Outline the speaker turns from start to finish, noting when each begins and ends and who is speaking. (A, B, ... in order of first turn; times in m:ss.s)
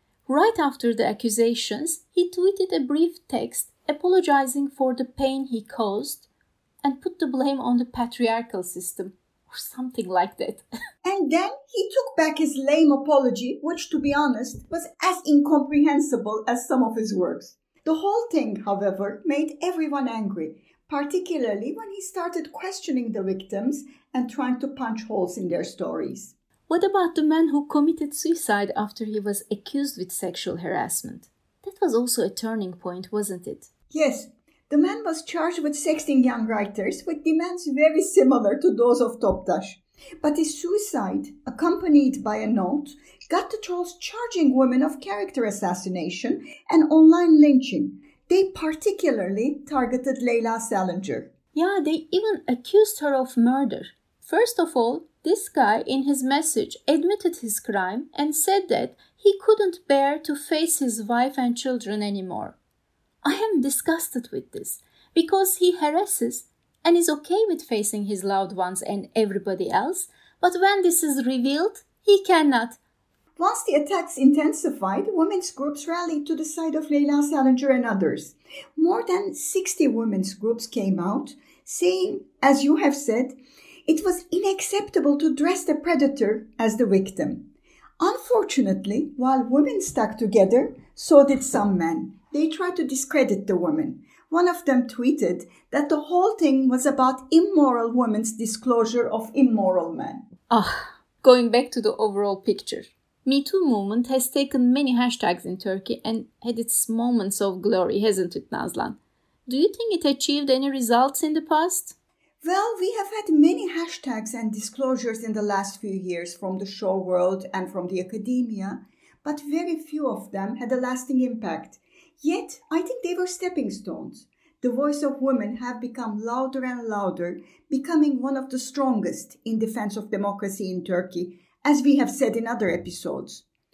0:00.3-0:06.3 A
0:06.8-0:10.7 A
0:11.0-0:26.3 B
0:26.7-0:33.7 A
0:33.9-0:51.3 B
0:51.5-1:02.6 A
1:03.2-1:12.8 A
1:13.4-1:27.4 B
1:28.0-1:40.2 B
1:40.5-1:52.0 A
1:52.4-2:13.4 B